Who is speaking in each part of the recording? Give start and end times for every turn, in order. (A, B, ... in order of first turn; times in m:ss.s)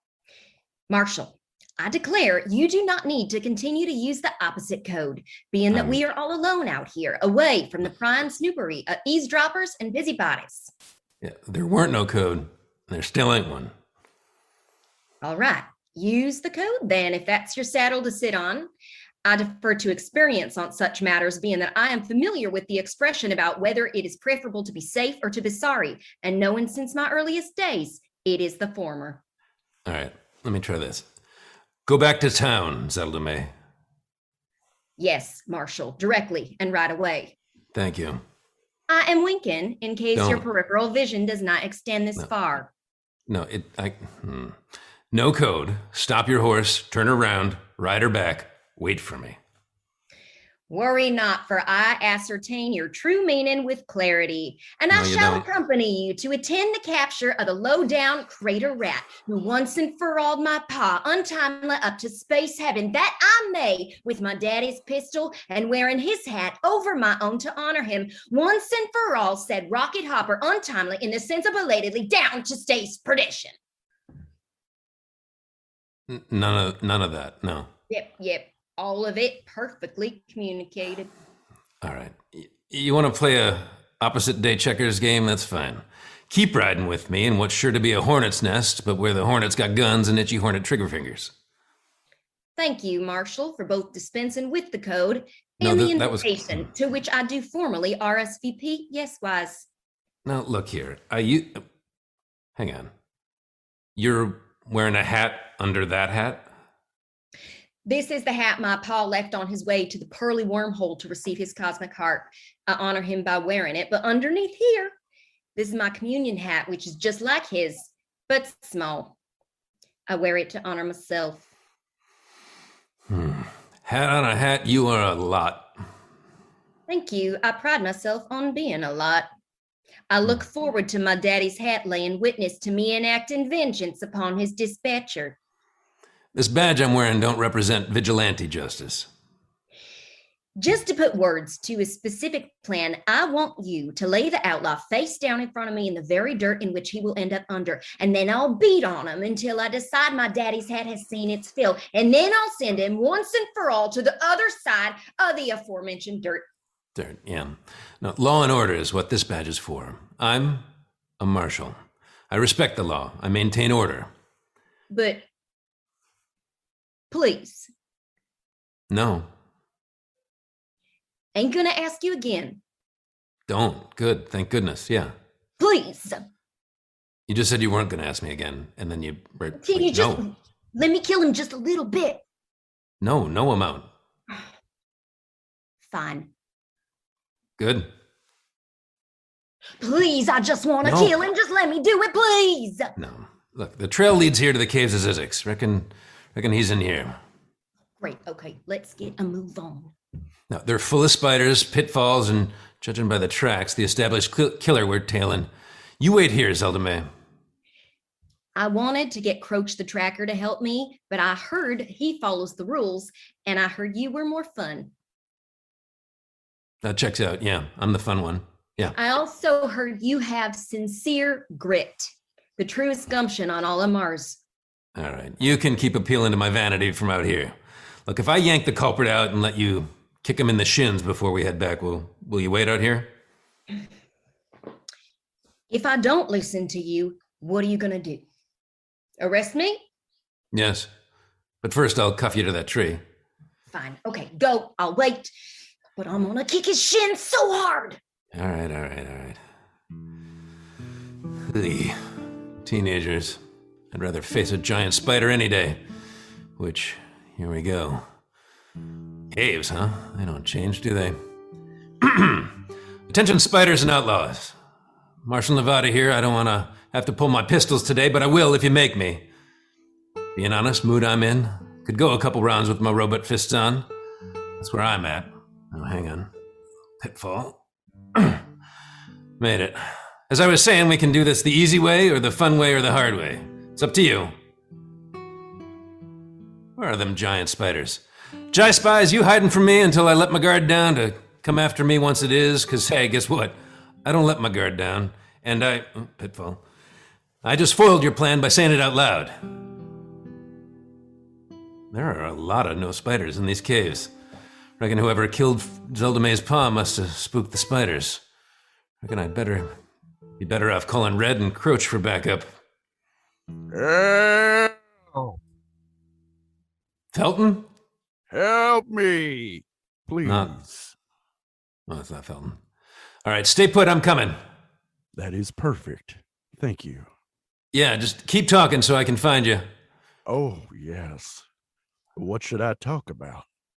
0:00.9-0:10.7 A
0:05.7-0:06.0 B
0:11.2-0:13.7 B
0:15.2-0:18.7 A
0:19.2-0:29.2 A
0:29.8-0:31.1 B
0:31.8-0:33.5 B
0:35.0-0:37.3 A
0:37.7-0:38.2 B
0:38.9-0:42.7 A
0:40.1-0:40.4 B
0:43.3-0:44.6 B
0:45.1-0:49.4 B
0:50.7-1:13.5 A
0:54.9-0:55.5 B
1:16.1-1:17.7 B
1:17.9-1:21.1 A
1:21.8-1:31.3 B
1:32.6-1:39.7 A
1:35.6-1:36.7 B
1:40.2-1:41.6 B
1:42.6-1:42.9 B
1:44.0-1:46.5 B
1:47.8-1:54.9 A
1:55.6-1:59.1 A
2:00.1-2:01.4 A
2:03.1-2:05.7 B
2:06.9-2:09.3 A
2:10.1-2:15.4 A
2:16.3-2:19.1 B
2:20.6-2:36.4 A
2:36.9-2:40.7 B
2:41.2-2:44.1 B
2:44.9-2:45.2 A
2:47.1-2:47.7 A
2:48.9-2:49.3 B
2:51.3-2:52.6 A
2:53.5-2:55.1 B
2:55.6-2:56.2 A
2:57.3-3:00.2 B
2:59.5-3:02.2 A
3:03.0-3:03.9 B
3:05.9-3:06.3 A
3:07.6-3:07.9 B
3:09.8-3:13.0 A
3:10.8-3:11.1 B
3:13.0-3:17.2 B
3:18.0-3:19.9 A
3:20.5-3:25.5 B
3:26.0-3:27.1 B
3:28.6-3:34.9 A
3:36.8-3:38.9 B
3:39.0-3:44.4 A
3:45.0-3:53.1 B
3:55.7-3:58.2 A
3:59.2-3:59.8 A
4:00.5-4:00.9 B
4:01.6-4:03.0 B
4:03.7-4:05.3 A
4:06.0-4:08.0 A
4:08.3-4:09.4 B
4:11.4-4:13.4 B
4:13.9-4:15.8 B
4:16.6-4:18.1 B
4:19.3-4:21.2 B
4:22.0-4:22.6 B
4:23.1-4:24.6 B
4:25.2-4:29.2 B
4:30.3-4:33.9 B
4:34.6-4:36.3 B
4:37.0-4:37.6 B
4:38.1-4:38.4 B
4:39.4-4:44.3 B
4:46.8-4:56.6 B
4:57.4-4:59.5 B
5:01.9-5:04.1 B
5:04.8-5:08.2 B
5:09.0-5:09.7 B
5:10.4-5:12.5 B
5:13.7-5:15.4 C
5:17.1-5:17.7 B
5:18.3-5:21.0 C
5:20.2-5:20.5 B
5:21.9-5:22.6 B
5:23.2-5:24.4 B
5:25.1-5:27.1 C
5:27.7-5:29.7 B
5:30.2-5:31.4 C
5:32.2-5:33.4 C